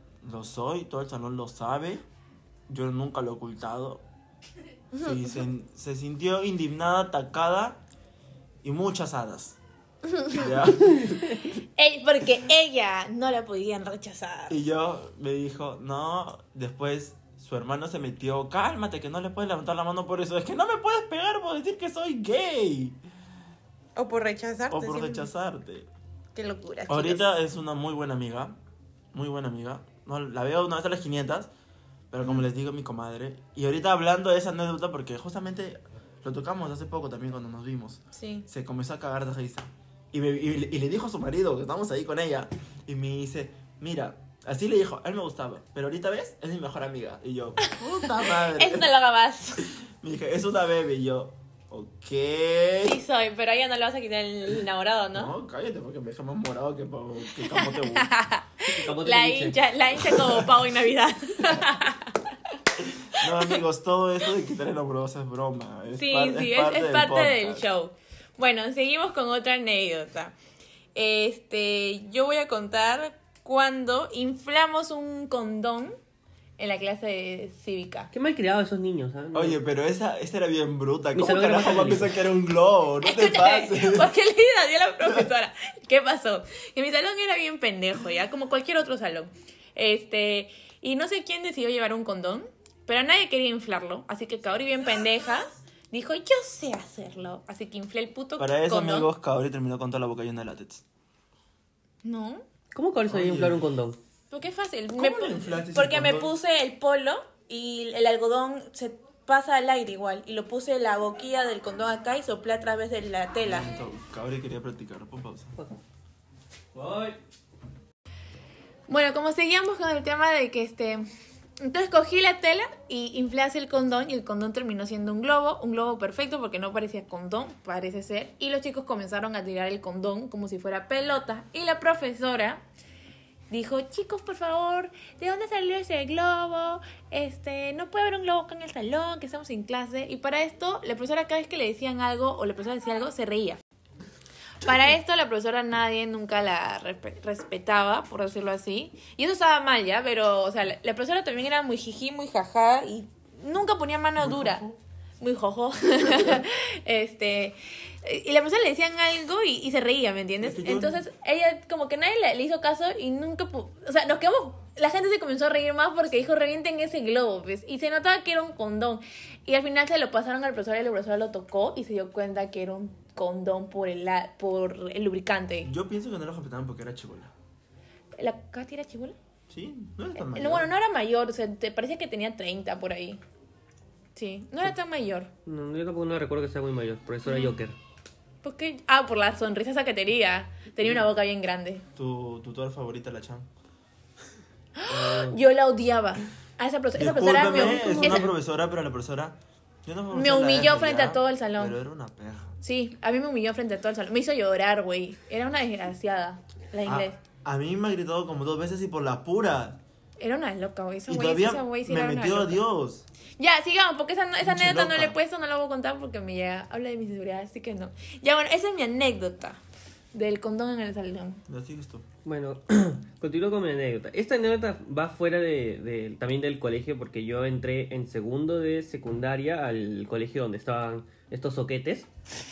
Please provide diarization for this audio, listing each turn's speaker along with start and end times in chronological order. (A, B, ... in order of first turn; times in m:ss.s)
0:00.2-0:02.0 A
0:02.7-0:04.0 A
0:04.9-0:07.8 A
0:08.6-0:09.6 A
0:10.1-0:10.4 B
0:10.3-0:11.5 A
0:11.4-0:14.6 B
0:14.5-0:23.0 A
0:24.0-0:25.3 B
0:24.7-0:25.9 A
0:26.3-0:27.3 B
0:26.9-0:28.6 A
0:29.1-0:31.5 A
0:32.1-0:48.9 A
0:38.1-0:38.4 B
0:47.6-0:49.6 B
0:49.6-0:53.0 A
0:52.8-0:55.3 B
0:55.1-0:58.1 A
0:57.4-1:02.2 B
0:58.7-0:59.6 C
1:00.1-1:00.4 A
1:02.8-1:07.6 A
1:03.2-1:03.6 B
1:06.0-1:10.4 B
1:10.9-1:16.0 B
1:16.6-1:18.1 B
1:18.1-1:19.6 C
1:19.3-1:24.1 A
1:21.1-1:22.1 C
1:23.0-1:39.1 B
1:38.4-1:40.8 A
1:42.0-1:42.4 B
1:42.7-1:44.0 C
1:43.1-1:43.6 A
1:44.3-1:53.7 B
1:44.9-1:46.3 A
1:53.4-1:55.6 A
1:56.7-1:57.2 C
1:58.9-2:01.0 B
2:01.6-2:12.6 B
2:13.5-2:23.6 B
2:24.6-2:55.7 B
2:34.2-2:34.7 A
2:40.4-2:41.0 A
2:55.6-2:57.3 A
2:58.2-2:59.2 B
2:59.5-3:00.7 A
3:00.2-3:03.2 B
3:04.2-3:05.3 B
3:05.4-3:07.8 C
3:07.2-3:07.6 B
3:08.4-3:11.8 B
3:12.0-3:13.5 A
3:14.8-3:18.3 B
3:14.9-3:15.4 C
3:16.9-3:22.6 A
3:17.7-3:18.3 C
3:20.1-3:21.8 B
3:22.6-3:27.2 B
3:26.8-3:29.8 A
3:30.2-3:32.6 B
3:31.1-3:33.0 A
3:33.4-3:39.6 B
3:34.4-3:35.2 A
3:40.1-3:41.4 B
3:41.5-3:42.0 A
3:42.2-3:52.1 C